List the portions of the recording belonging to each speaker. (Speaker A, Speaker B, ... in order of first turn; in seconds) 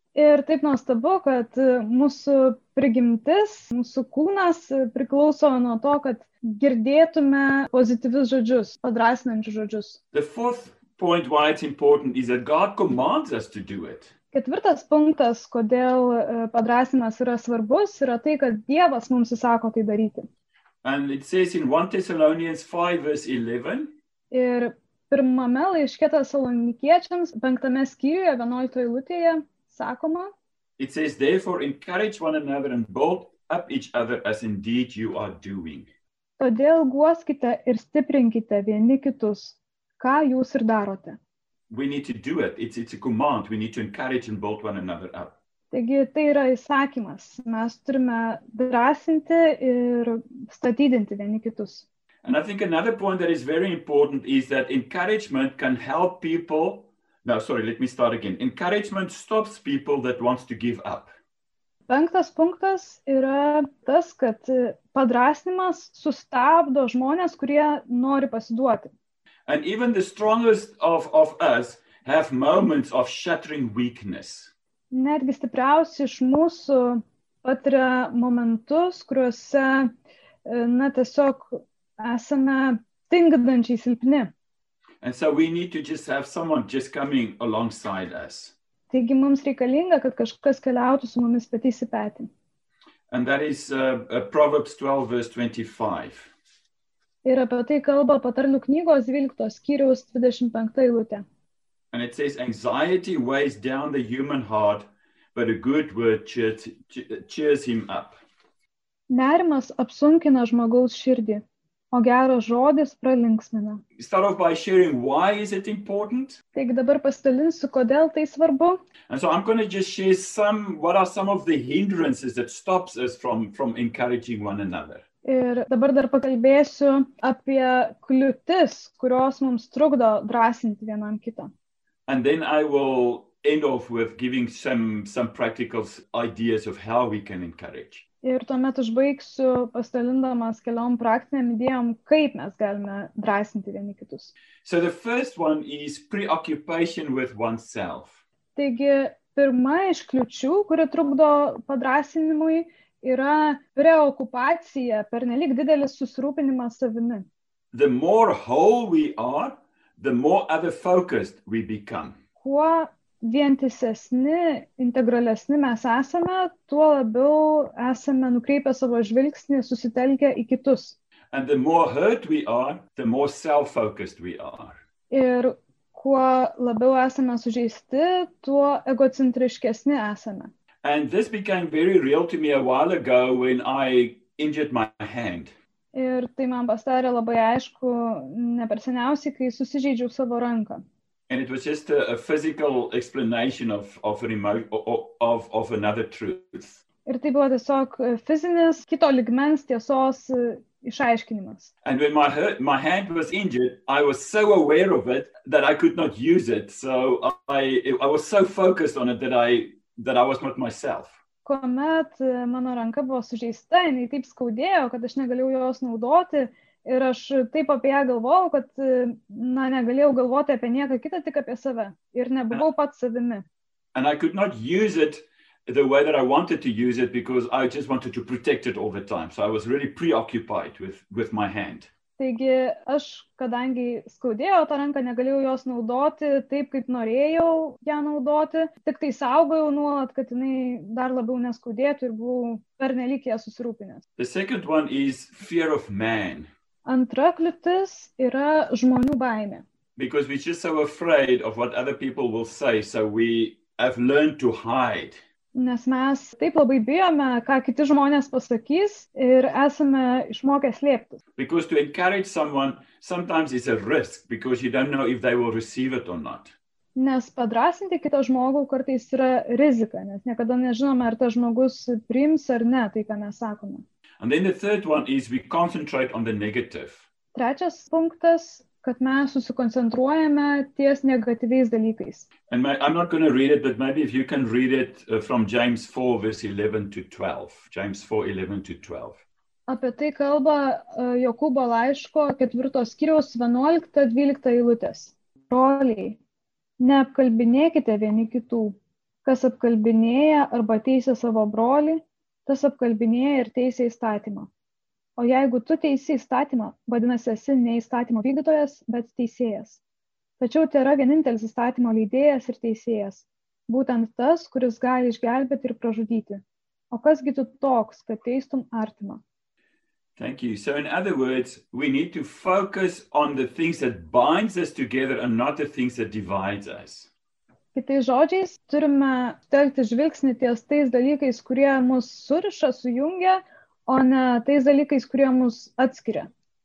Speaker A: 0.1-10.0, 14.3-20.3, 24.3-30.3, 36.4-41.2, 45.7-51.9, 61.9-68.9, 74.9-79.9, 80.5-84.3, 88.9-92.3, 97.2-101.2, 109.1-113.8, 116.5-118.8, 125.2-131.5, 138.2-144.3, 148.6-157.3, 162.4-171.0, 175.1-180.5, 185.9-190.8, 197.1-201.7, 211.4-223.4, 232.2-244.0, 246.8-249.6, 255.6-261.2, 267.0-273.8, 277.4-282.3, 289.7-296.2, 296.8-304.5, 305.2-309.8, 310.4-319.2, 327.8-336.3
Speaker B: 10.1-14.1, 20.8-23.9, 30.8-35.9, 41.7-45.4, 52.2-61.1, 69.5-74.5, 85.0-88.5, 93.1-96.3, 101.9-108.2, 114.0-116.4, 119.1-125.0, 132.1-138.1, 144.7-148.2, 157.7-162.2, 171.3-174.8, 180.8-185.5, 191.3-196.8, 201.8-211.2, 223.9-231.9, 244.2-246.5, 250.0-255.2, 261.4-266.5, 274.2-277.1, 282.5-289.2, 320.2-327.1